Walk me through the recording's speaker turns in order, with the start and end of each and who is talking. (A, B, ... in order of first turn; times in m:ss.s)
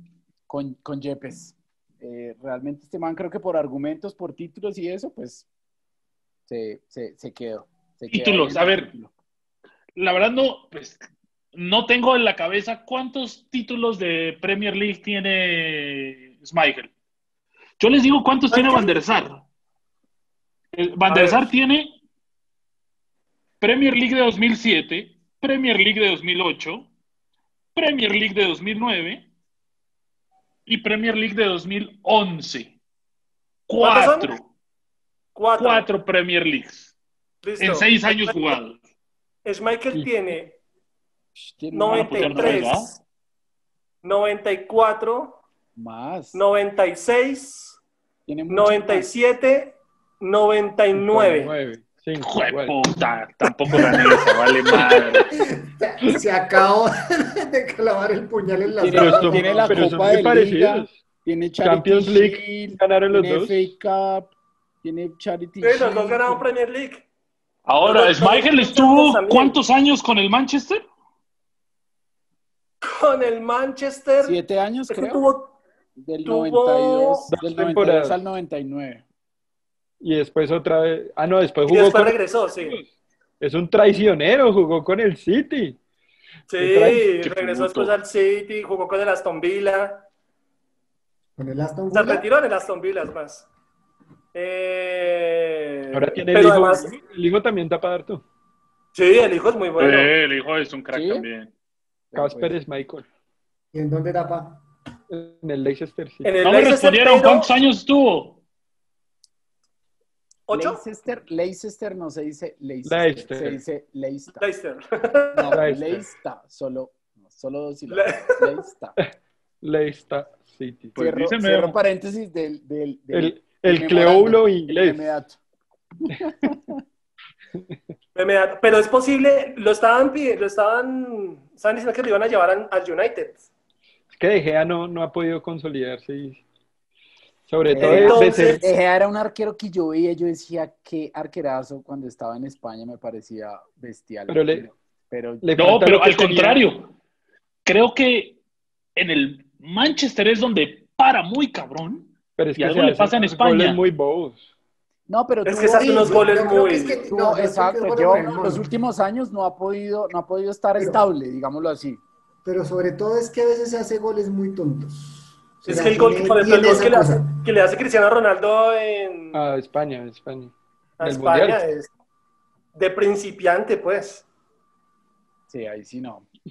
0:00.5-0:05.5 A
0:06.5-0:09.1 A
0:08.1-0:08.9 B
0:10.0-0:11.0 B
0:11.5-0:16.9 B
0:17.8-0:19.4 B
0:18.5-0:18.9 C
0:20.7-0:22.0 B
0:21.1-0:21.5 C
0:23.6-0:26.9 B
0:27.7-0:29.3 B
0:30.6-0:32.8 B
0:33.7-0:34.4 B
0:33.8-0:34.3 C
0:35.3-0:35.9 C
0:35.6-0:36.9 B
0:37.4-0:38.5 C
0:37.6-0:38.8 B
0:39.4-0:40.6 C
0:41.4-0:42.8 A
0:41.7-0:43.0 C
0:41.9-0:42.9 B
0:44.0-0:45.4 C
0:45.8-0:46.4 A
0:46.3-0:47.8 C
0:48.3-0:49.1 A
0:48.5-0:51.5 C
0:50.9-0:52.8 D
0:52.2-0:55.3 B
0:55.3-0:59.9 E
0:58.8-1:04.3 A
0:58.9-1:01.0 D
1:01.6-1:03.7 D
1:04.8-1:06.4 A
1:05.6-1:07.1 C
1:07.6-1:10.8 B
1:07.8-1:09.6 C
1:12.8-1:14.4 C
1:14.2-1:15.2 A
1:14.9-1:15.6 C
1:16.0-1:19.0 A
1:16.2-1:17.3 C
1:17.3-1:18.2 D
1:20.0-1:22.8 D
1:21.7-1:22.8 C
1:23.4-1:25.8 D
1:26.5-1:30.0 C
1:26.6-1:27.1 D
1:27.2-1:27.9 B
1:31.4-1:32.3 E
1:31.9-1:33.5 C
1:34.3-1:36.9 C
1:35.9-1:38.2 D
1:38.9-1:40.1 C
1:39.8-1:41.5 B
1:40.9-1:41.2 A
1:42.1-1:42.6 A
1:42.2-1:43.0 D
1:43.7-1:44.6 E
1:45.1-1:46.3 D
1:46.2-1:47.6 C
1:46.4-1:48.4 B
1:50.5-1:50.8 C
1:50.5-1:54.4 A
1:52.8-1:53.6 D
1:54.4-1:55.6 C
1:55.3-1:59.0 A
1:55.5-1:56.0 D
1:57.9-1:58.5 C
1:59.6-2:01.0 D
2:01.0-2:05.4 A
2:01.0-2:01.8 B
2:03.1-2:05.1 D
2:06.0-2:06.8 A
2:08.1-2:13.4 C
2:14.1-2:16.4 D
2:17.5-2:18.7 D
2:17.7-2:25.5 A
2:17.8-2:18.7 C
2:24.3-2:24.7 D
2:25.4-2:26.6 D
2:25.6-2:26.9 B
2:27.6-2:28.4 B
2:29.0-2:33.8 B
2:32.4-2:34.4 D
2:35.1-2:36.4 A
2:35.4-2:37.0 C
2:35.7-2:38.6 E
2:37.0-2:42.0 A
2:42.4-2:47.3 E
2:45.6-2:49.4 C
2:49.3-2:51.6 D
2:51.0-2:51.9 C
2:52.7-2:54.2 C
2:55.5-2:56.2 A